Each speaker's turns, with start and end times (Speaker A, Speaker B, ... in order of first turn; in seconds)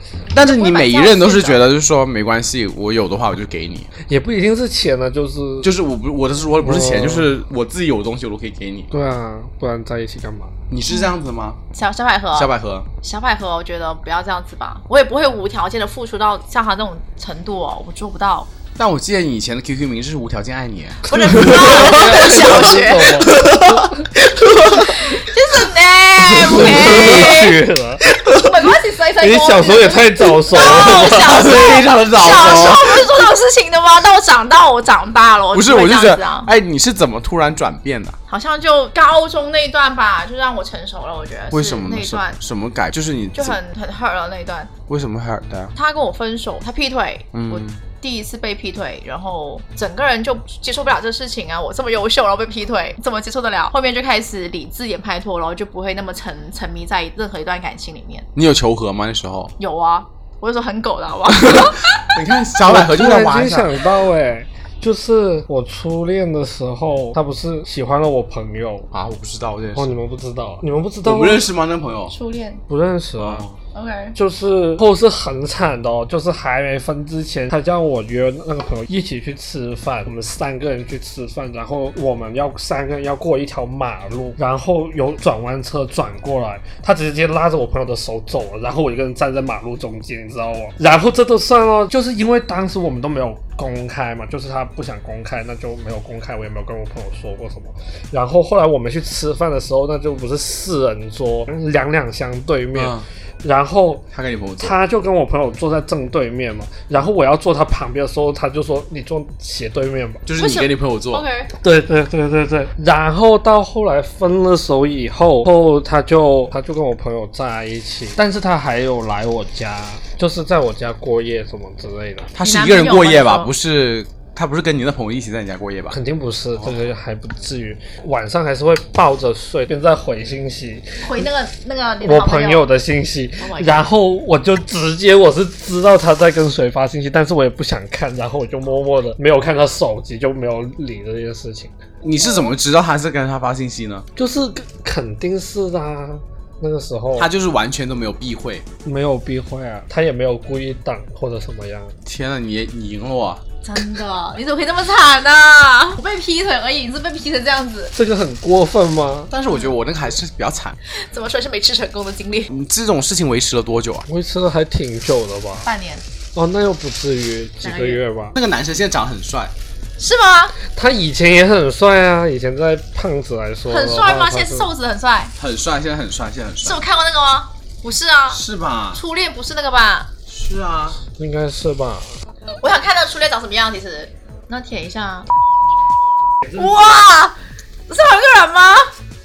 Speaker A: 0.3-3.9, 5.6-8.9, 10.7-11.6, 12.3-12.9, 18.8-22.6, 23.3-23.9, 26.3-27.1, 30.6-33.1, 35.5-38.1, 41.5-43.6, 44.9-45.7, 47.3-47.8, 58.3-59.5, 61.3-63.7, 68.9-69.9, 71.0-72.1, 73.2-73.6, 102.7-103.0, 104.1-104.8, 110.2-111.2, 122.3-126.0, 142.0-144.1, 147.1-148.6, 152.1-153.4, 159.3-160.8, 162.5-164.1, 168.3-169.5, 175.4-176.8, 178.3-179.0, 180.3-181.0
Speaker B: 0.3-1.6, 11.7-12.5, 13.0-18.5, 21.1-23.4, 24.9-27.6, 28.3-36.5, 38.3-42.4, 43.3-44.7, 45.8-58.2, 59.6-62.1, 72.1-72.6, 73.7-74.2, 110.4-111.5, 122.4-123.5, 131.0-132.7, 133.4-133.9, 153.6-157.9, 159.4-159.8, 160.9-162.5, 165.6-166.0, 167.6-168.0, 170.0-170.6, 173.7-175.3, 176.6-178.4, 178.9-180.1, 182.6-185.3, 186.6-187.3, 187.9-188.9
Speaker C: 4.1-5.7, 6.6-7.3, 8.9-10.5, 21.2-23.9, 26.4-28.1, 29.2-31.3, 62.6-68.9, 69.7-71.4, 72.7-73.4, 74.1-104.0, 104.6-110.2, 111.6-122.3, 125.9-131.2, 132.0-141.7, 144.2-147.3, 148.8-152.0, 157.9-159.3, 164.1-165.7, 166.3-168.3, 170.7-174.7, 181.1-182.1